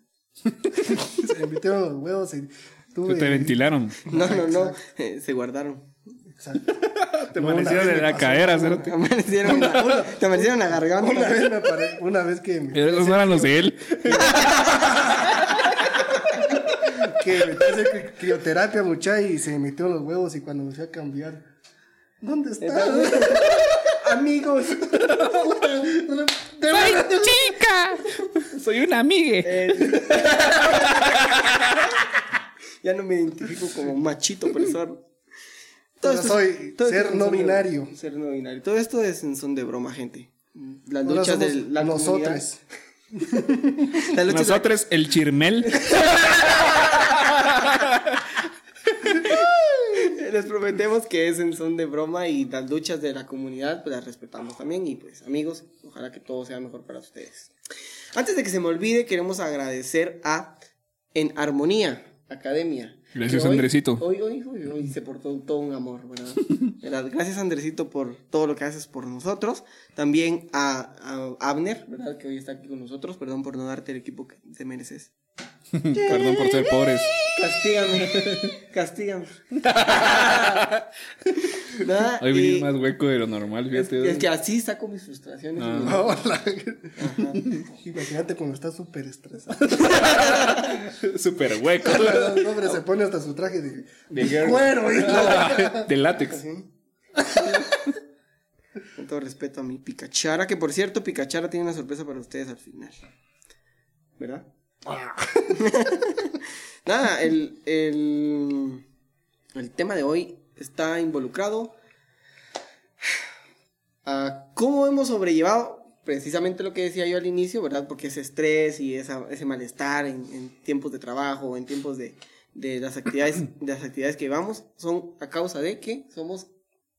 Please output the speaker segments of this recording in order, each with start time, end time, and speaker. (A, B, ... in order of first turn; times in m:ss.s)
0:00.4-0:01.1 A
0:00.8-0:04.8 B
0:03.0-0:04.1 A
0:04.0-0:05.9 C
0:06.4-0:15.3 B
0:06.8-0:08.9 A
0:08.6-0:11.8 C
0:12.7-0:15.6 A
0:14.2-0:16.5 C
0:16.5-0:21.5 B
0:22.2-0:23.8 B
0:22.6-0:25.3 C
0:24.8-0:27.6 B
0:25.1-0:25.6 A
0:26.7-0:31.9 A
0:29.4-0:31.2 C
0:32.8-0:35.0 C
0:36.0-0:42.4 C
0:36.0-0:37.9 B
0:41.0-0:42.6 B
0:43.1-0:44.0 B
0:44.0-0:44.7 C
0:44.3-0:48.2 A
0:45.8-0:47.4 C
0:49.0-0:49.4 A
0:49.2-0:57.5 C
0:58.1-1:00.6 C
1:01.1-1:15.1 C
1:03.1-1:04.0 A
1:15.7-1:17.2 A
1:15.9-1:16.7 C
1:17.3-1:20.6 C
1:18.0-1:18.5 A
1:19.6-1:20.8 A
1:21.6-1:22.7 C
1:22.2-1:24.2 A
1:23.7-1:26.1 C
1:25.6-1:26.0 A
1:25.8-1:30.2 B
1:27.0-1:27.6 C
1:29.7-1:32.7 A
1:29.8-1:30.8 C
1:31.8-1:35.9 B
1:34.1-1:36.4 A
1:36.2-1:36.7 C
1:37.3-1:37.8 C
1:38.9-1:43.0 C
1:44.2-1:44.5 C
1:44.9-1:45.4 B
1:45.5-1:48.8 C
1:49.5-1:51.7 C
1:54.0-2:06.5 C